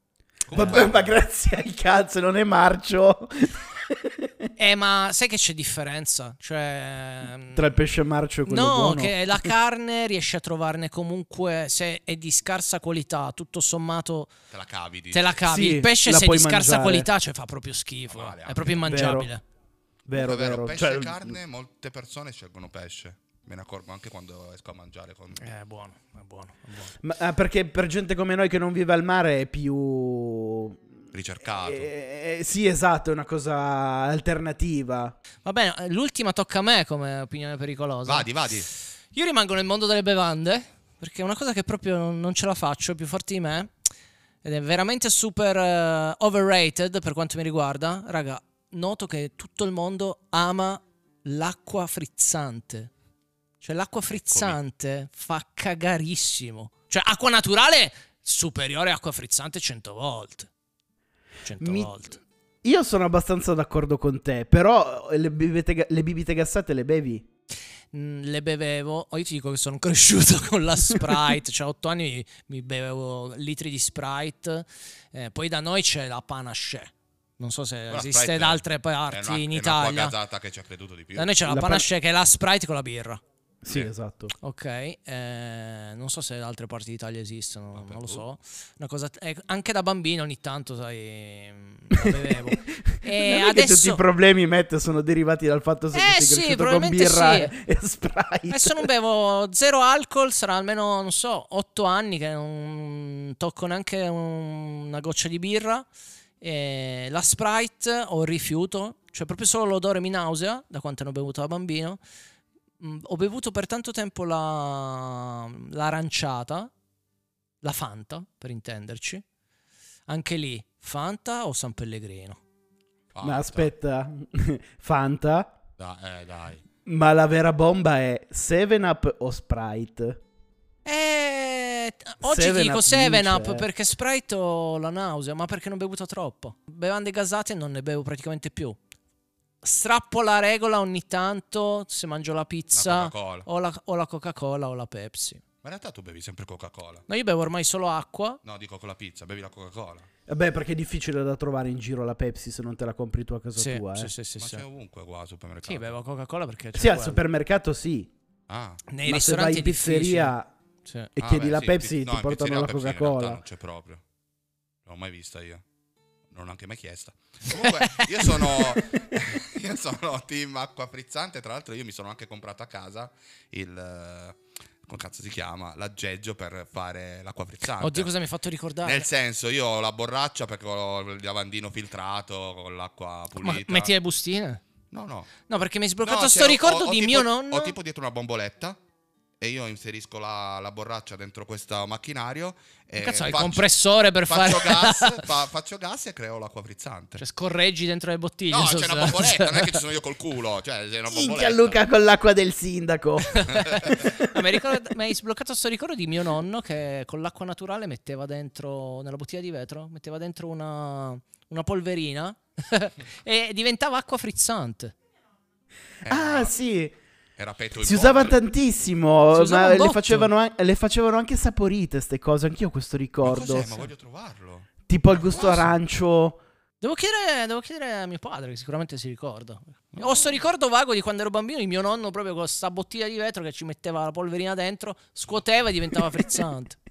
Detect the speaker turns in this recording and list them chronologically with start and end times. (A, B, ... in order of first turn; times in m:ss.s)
0:00.5-0:01.2 A
0:00.5-0:00.8 B
0:00.5-0:04.3 C
0:04.6-0:07.8 B
0:07.6-0:09.5 C
0:08.5-0:14.3 B
0:14.5-0:15.4 A
0:15.1-0:19.4 B
0:15.5-0:17.1 C
0:18.1-0:18.8 A
0:18.8-0:19.3 C
0:20.1-0:21.4 C
0:20.1-0:25.4 A
0:25.4-0:27.0 B
0:27.0-0:30.8 C
0:31.1-0:31.9 A
0:31.6-0:35.2 C
0:35.4-0:38.3 B
0:38.1-0:38.7 A
0:39.1-0:43.7 B
0:44.4-0:52.9 B
0:53.6-1:00.5 B
0:54.1-0:54.6 A
1:01.4-1:02.2 B
1:01.6-1:01.9 C
1:02.6-1:07.2 C
1:07.9-1:20.2 B
1:17.9-1:21.4 A
1:21.2-1:23.2 B
1:21.5-1:21.9 C
1:23.6-1:24.3 C
1:24.4-1:34.0 B
1:27.8-1:28.2 A
1:32.0-1:38.9 C
1:35.9-1:37.5 B
1:38.5-1:45.9 B
1:46.4-1:52.0 B
1:52.8-1:56.7 B
1:57.6-1:59.2 B
2:00.1-2:02.4 B
2:03.1-2:03.7 A
2:03.2-2:05.5 C
2:05.8-2:06.6 A
2:06.9-2:10.2 C
2:10.9-2:18.8 B
2:12.2-2:13.7 C
2:19.6-2:25.4 B
2:22.7-2:23.5 A
2:25.6-2:27.0 A
2:27.1-2:28.4 B
2:28.4-2:30.1 A
2:30.3-2:34.1 C
2:33.6-2:34.6 B
2:34.4-2:36.0 A
2:35.6-2:37.2 B
2:36.8-2:38.1 C
2:38.5-2:38.8 A
2:38.9-2:41.1 B
2:39.1-2:40.5 C
2:41.2-2:43.4 C
2:41.2-2:44.0 A
2:44.9-2:45.6 A
2:46.3-2:58.1 A
2:47.5-2:48.8 B
2:57.8-2:59.1 B
2:58.8-3:03.9 A
3:03.4-3:04.6 B
3:04.9-3:05.3 A
3:05.5-3:07.8 B
3:06.0-3:08.8 A
3:09.4-3:13.7 A
3:13.0-3:15.2 B
3:14.3-3:17.2 A
3:17.2-3:19.8 B
3:18.5-3:21.8 A
3:21.1-3:24.2 C
3:23.3-3:34.9 B
3:23.6-3:23.9 A
3:36.0-3:36.5 A
3:36.1-3:37.0 C
3:37.4-3:38.4 A
3:37.8-3:43.7 C
3:39.3-3:40.3 B
3:43.2-3:44.7 A
3:44.9-3:46.4 C
3:45.3-3:45.6 A
3:46.8-3:56.8 B
3:50.0-3:50.3 A